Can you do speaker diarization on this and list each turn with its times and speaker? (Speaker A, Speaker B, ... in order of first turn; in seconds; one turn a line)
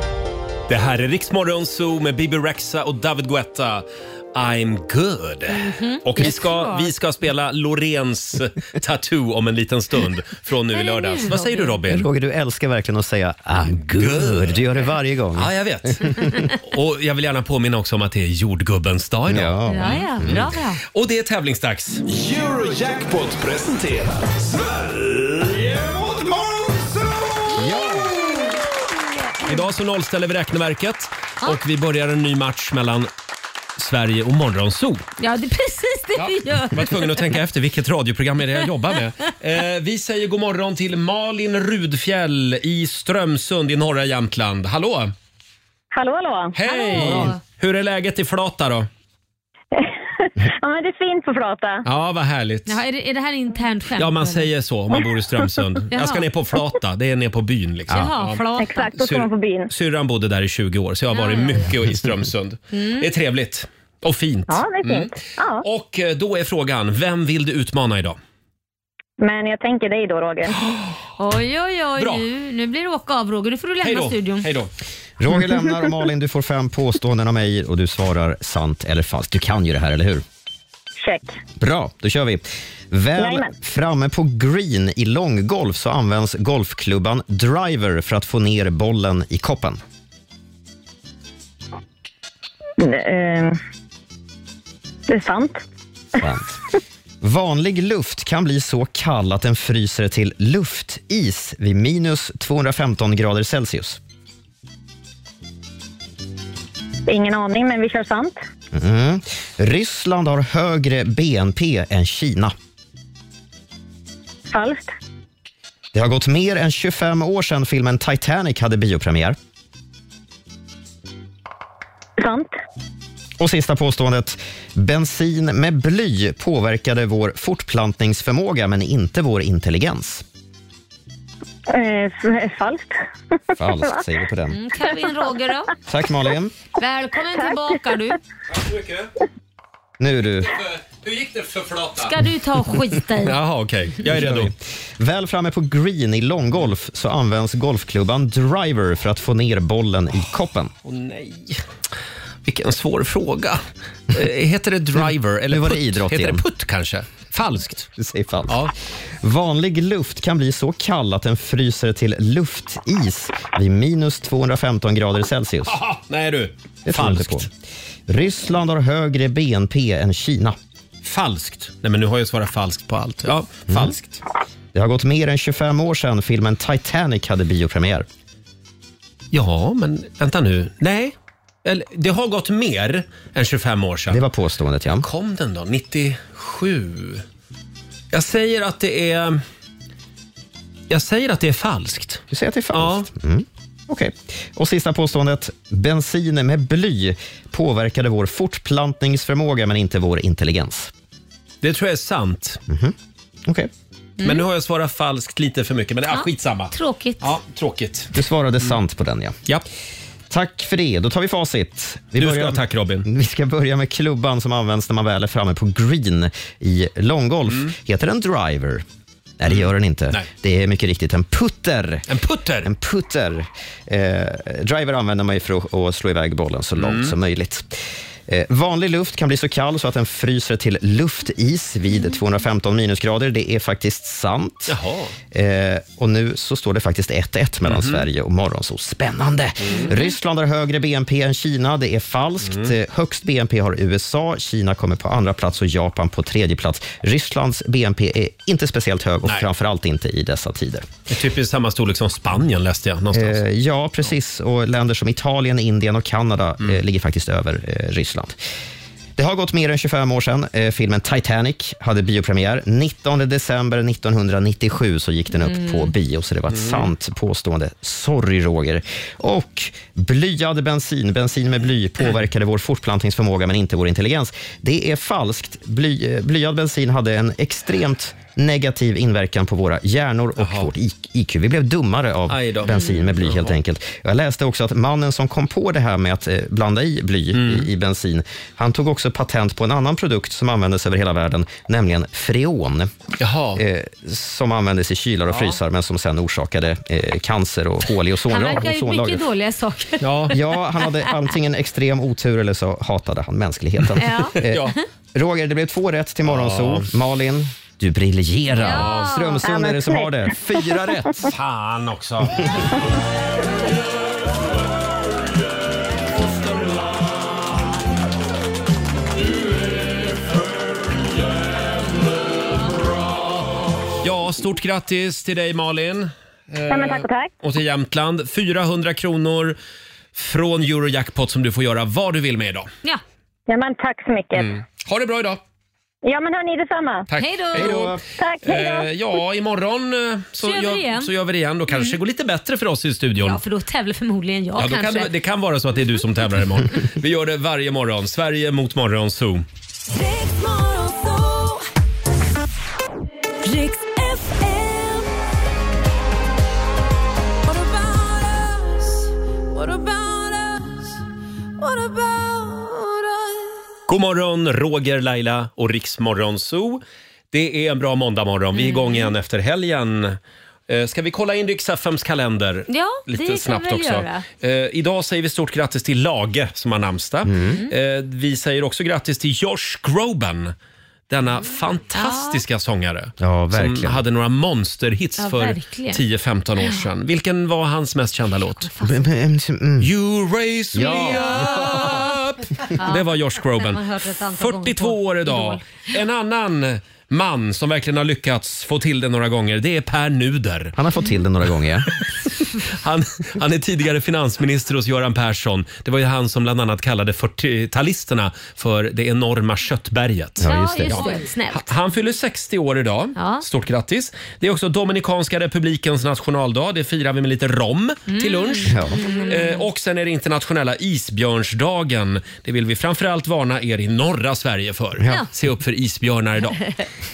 Speaker A: 0.7-12.1
Speaker B: 5.5-6.9
Speaker B: 10.7-11.8
Speaker C: 11.9-16.4
Speaker A: 13.9-14.6
Speaker A: 15.3-22.0
Speaker C: 19.3-20.5
Speaker B: 19.7-20.8
Speaker D: 22.1-28.6
Speaker C: 27.5-28.1
Speaker A: 29.5-33.1
Speaker A: 33.8-35.1
Speaker B: 35.2-37.2
Speaker A: 36.2-45.1
Speaker E: 45.9-46.6
Speaker A: 46.5-48.9
Speaker B: 46.6-47.4
Speaker C: 47.0-47.3
Speaker E: 49.7-51.9
Speaker A: 51.8-52.8
Speaker B: 52.7-54.5
Speaker A: 54.0-58.5
Speaker B: 55.9-56.3
Speaker B: 57.9-59.0
Speaker E: 58.5-59.7
Speaker A: 59.0-68.2
Speaker B: 61.1-61.7
Speaker B: 62.7-63.1
Speaker E: 64.5-65.7
Speaker E: 69.2-70.6
Speaker B: 71.2-74.5
Speaker A: 72.0-72.2
Speaker A: 73.8-74.7
Speaker C: 75.2-80.2
Speaker E: 81.0-81.4
Speaker C: 81.6-89.8
Speaker E: 83.2-83.5
Speaker E: 92.8-93.6
Speaker E: 95.1-95.6
Speaker C: 96.2-96.6
Speaker C: 97.2-104.0
Speaker E: 107.1-108.4
Speaker C: 108.7-112.5
Speaker E: 114.5-114.9
Speaker C: 115.9-119.4
Speaker E: 122.2-122.5
Speaker C: 123.4-130.2
Speaker E: 131.7-133.0
Speaker C: 133.6-134.6
Speaker B: 134.5-135.7
Speaker C: 135.9-136.5
Speaker B: 136.8-138.2
Speaker A: 138.5-139.1
Speaker C: 140.0-140.6
Speaker A: 140.4-142.2
Speaker B: 142.0-143.4
Speaker A: 143.2-144.5
Speaker C: 144.1-150.7
Speaker A: 150.8-151.6
Speaker A: 152.4-157.9
Speaker C: 155.5-156.4
Speaker C: 158.0-158.6
Speaker A: 158.5-158.7
Speaker C: 159.2-165.8
Speaker A: 165.7-167.5
Speaker C: 166.9-167.5
Speaker C: 168.1-170.6
Speaker A: 171.0-174.2
Speaker C: 173.7-173.9
Speaker C: 174.7-178.1
Speaker A: 179.3-184.2
Speaker C: 184.1-185.1
Speaker A: 185.0-187.2
Speaker A: 188.1-189.4
Speaker A: 190.9-193.1
Speaker C: 192.3-200.9
Speaker A: 201.6-202.6
Speaker C: 202.7-202.9
Speaker A: 204.2-208.1
Speaker B: 206.1-207.3
Speaker C: 208.1-209.3
Speaker C: 210.3-218.8
Speaker A: 212.2-213.1
Speaker C: 219.4-222.1
Speaker A: 219.5-220.3
Speaker A: 222.1-222.7
Speaker C: 222.6-234.8
Speaker A: 226.8-227.1
Speaker A: 234.7-235.1
Speaker C: 235.3-250.9
Speaker A: 237.7-238.0
Speaker A: 239.6-239.9
Speaker A: 242.4-242.7
Speaker A: 251.1-253.4
Speaker C: 253.1-258.4
Speaker C: 259.2-292.9
Speaker B: 265.4-265.9
Speaker A: 266.5-266.9
Speaker A: 280.4-280.7
Speaker A: 282.3-283.5
Speaker B: 282.7-283.0
Speaker A: 287.3-287.7
Speaker A: 293.2-293.6
Speaker C: 293.6-299.3
Speaker A: 295.3-295.6
Speaker B: 298.3-301.1
Speaker A: 300.0-300.4
Speaker C: 300.3-311.3
Speaker B: 304.0-304.4
Speaker A: 304.4-304.7
Speaker A: 306.3-306.9
Speaker B: 308.6-309.4
Speaker A: 308.6-309.4
Speaker E: 309.4-310.9
Speaker A: 311.3-312.6
Speaker A: 324.0-329.6
Speaker E: 326.7-327.3
Speaker A: 330.1-332.7
Speaker E: 333.5-334.6
Speaker A: 334.4-335.4
Speaker E: 336.0-337.1
Speaker A: 337.1-343.4
Speaker B: 337.2-337.9
Speaker C: 337.6-338.0
Speaker E: 338.1-338.9
Speaker B: 340.4-341.1
Speaker B: 341.7-342.0
Speaker B: 343.2-345.1
Speaker A: 344.6-349.4
Speaker F: 349.9-351.6
Speaker F: 353.4-355.2
Speaker F: 357.4-361.0
Speaker F: 361.6-363.7
Speaker A: 363.9-380.5
Speaker B: 368.6-369.1
Speaker B: 372.7-374.3
Speaker C: 377.2-377.6
Speaker A: 381.1-388.7
Speaker B: 381.9-382.4
Speaker C: 383.2-384.0
Speaker B: 385.2-386.0
Speaker B: 388.5-389.1
Speaker C: 388.8-389.9
Speaker A: 389.8-393.8
Speaker C: 390.7-392.1
Speaker B: 391.0-392.1
Speaker B: 392.8-393.1
Speaker B: 393.6-395.8
Speaker A: 394.4-400.8
Speaker C: 400.8-401.9
Speaker A: 402.7-426.6
Speaker C: 410.4-411.0
Speaker B: 410.4-411.7
Speaker B: 413.1-413.4
Speaker B: 418.1-419.6
Speaker C: 418.7-419.0